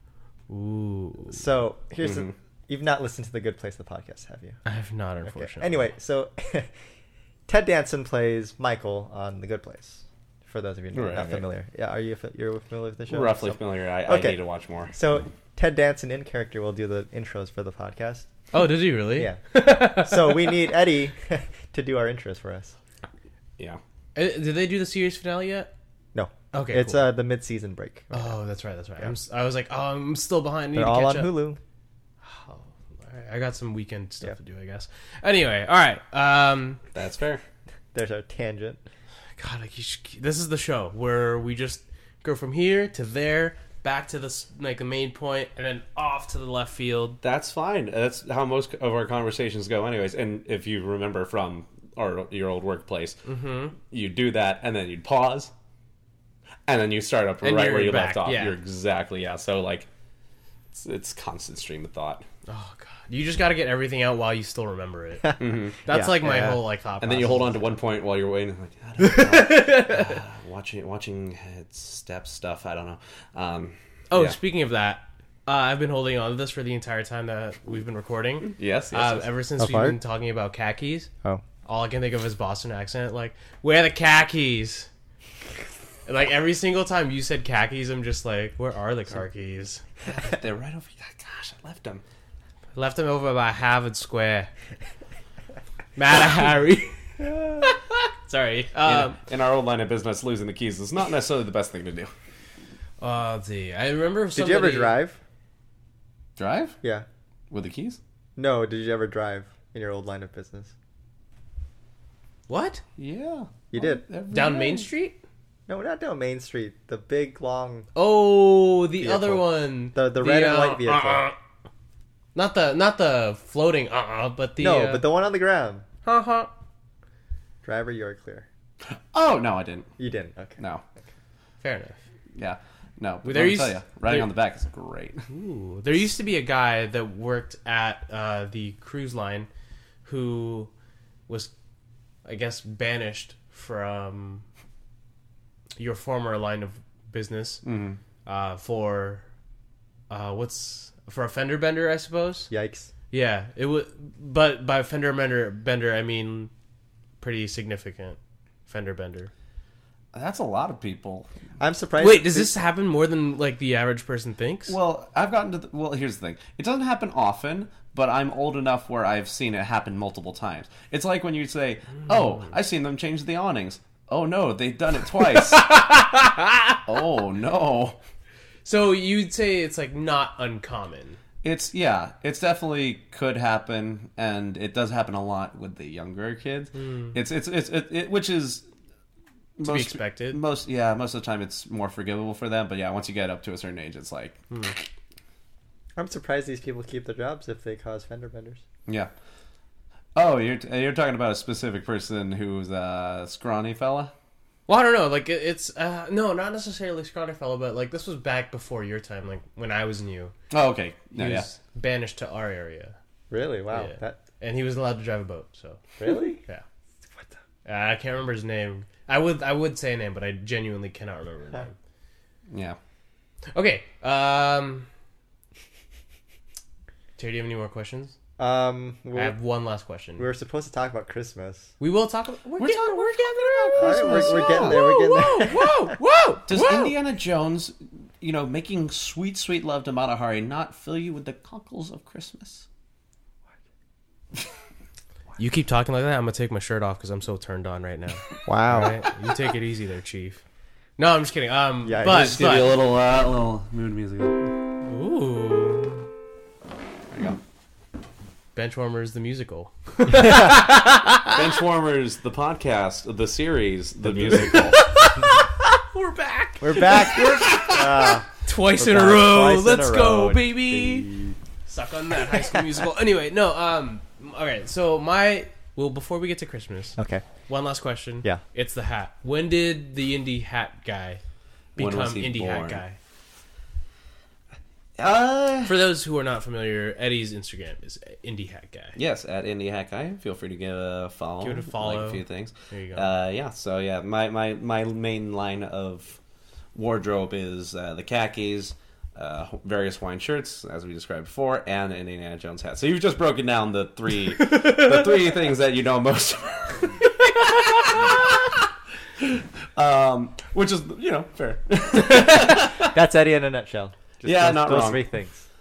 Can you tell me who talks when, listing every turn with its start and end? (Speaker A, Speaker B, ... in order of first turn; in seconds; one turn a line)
Speaker A: 0.5-1.4
Speaker B: 1.3-4.6
Speaker C: 2.0-2.3
Speaker A: 4.7-5.9
Speaker B: 5.2-6.7
Speaker B: 7.5-14.4
Speaker C: 10.9-11.5
Speaker C: 13.1-14.9
Speaker B: 14.9-18.3
Speaker A: 18.5-20.6
Speaker B: 19.2-22.8
Speaker A: 24.1-25.7
Speaker B: 26.1-28.4
Speaker A: 26.5-27.1
Speaker A: 28.1-31.4
Speaker B: 30.8-31.6
Speaker A: 32.2-36.8
Speaker C: 36.9-37.4
Speaker B: 37.9-38.8
Speaker A: 39.4-47.2
Speaker C: 47.2-53.2
Speaker A: 53.2-53.8
Speaker C: 53.8-55.5
Speaker C: 56.7-59.9
Speaker A: 57.4-58.6
Speaker C: 60.7-62.2
Speaker A: 62.5-67.5
Speaker C: 65.4-65.8
Speaker B: 65.9-66.6
Speaker C: 67.0-74.4
Speaker A: 69.0-70.2
Speaker A: 74.1-81.1
Speaker C: 78.5-79.3
Speaker B: 79.6-80.0
Speaker A: 81.7-84.9
Speaker A: 86.1-89.8
Speaker C: 90.1-92.0
Speaker A: 92.8-94.5
Speaker A: 96.0-99.2
Speaker B: 97.2-97.7
Speaker C: 98.8-102.1
Speaker A: 103.0-105.0
Speaker B: 104.3-105.2
Speaker C: 106.4-106.8
Speaker C: 107.5-108.0
Speaker B: 108.4-110.7
Speaker A: 112.5-112.8
Speaker C: 113.0-114.9
Speaker B: 113.7-114.0
Speaker A: 114.3-115.2
Speaker B: 115.7-117.9
Speaker A: 118.0-121.4
Speaker B: 119.0-121.3
Speaker A: 122.3-125.0
Speaker B: 124.6-125.8
Speaker A: 126.0-126.5
Speaker B: 127.6-128.5
Speaker C: 128.9-129.9
Speaker B: 130.0-130.6
Speaker A: 131.6-132.0
Speaker C: 132.4-135.2
Speaker A: 133.2-134.3
Speaker A: 135.3-139.5
Speaker A: 140.1-140.7
Speaker A: 142.2-144.4
Speaker A: 145.8-147.6
Speaker C: 147.7-148.0
Speaker A: 148.3-149.2
Speaker A: 150.1-152.5
Speaker B: 152.5-152.9
Speaker A: 153.1-156.5
Speaker A: 157.2-159.3
Speaker C: 160.1-161.3
Speaker B: 161.6-162.6
Speaker A: 162.0-164.8
Speaker C: 164.7-175.9
Speaker A: 175.4-176.8
Speaker C: 176.9-178.0
Speaker A: 178.7-181.2
Speaker C: 181.4-188.6
Speaker A: 186.7-187.2
Speaker C: 189.6-194.5
Speaker A: 189.6-190.4
Speaker B: 196.0-198.6
Speaker C: 200.2-204.1
Speaker A: 204.7-210.3
Speaker C: 210.5-211.5
Speaker A: 211.2-212.9
Speaker B: 213.3-214.2
Speaker A: 213.7-215.9
Speaker B: 216.0-216.4
Speaker A: 217.7-221.8
Speaker C: 222.5-222.8
Speaker A: 223.5-224.9
Speaker A: 227.2-228.1
Speaker B: 228.4-229.4
Speaker A: 229.2-230.3
Speaker B: 230.2-231.7
Speaker A: 231.8-236.9
Speaker C: 232.6-234.8
Speaker B: 233.8-235.7
Speaker C: 236.5-242.7
Speaker A: 245.4-250.4
Speaker B: 248.5-249.0
Speaker A: 251.0-252.7
Speaker B: 251.8-252.7
Speaker C: 252.0-254.4
Speaker A: 254.8-256.1
Speaker C: 257.1-257.4
Speaker A: 258.6-261.3
Speaker C: 261.2-264.8
Speaker A: 264.3-271.1
Speaker B: 266.6-271.4
Speaker A: 271.7-277.0
Speaker B: 277.0-277.2
Speaker A: 277.5-281.2
Speaker C: 281.8-282.8
Speaker A: 281.8-283.0
Speaker C: 285.0-285.8
Speaker A: 285.6-289.0
Speaker C: 289.0-296.2
Speaker A: 291.4-293.1
Speaker C: 296.8-308.6
Speaker C: 309.2-312.9
Speaker B: 312.1-315.4
Speaker C: 314.2-315.0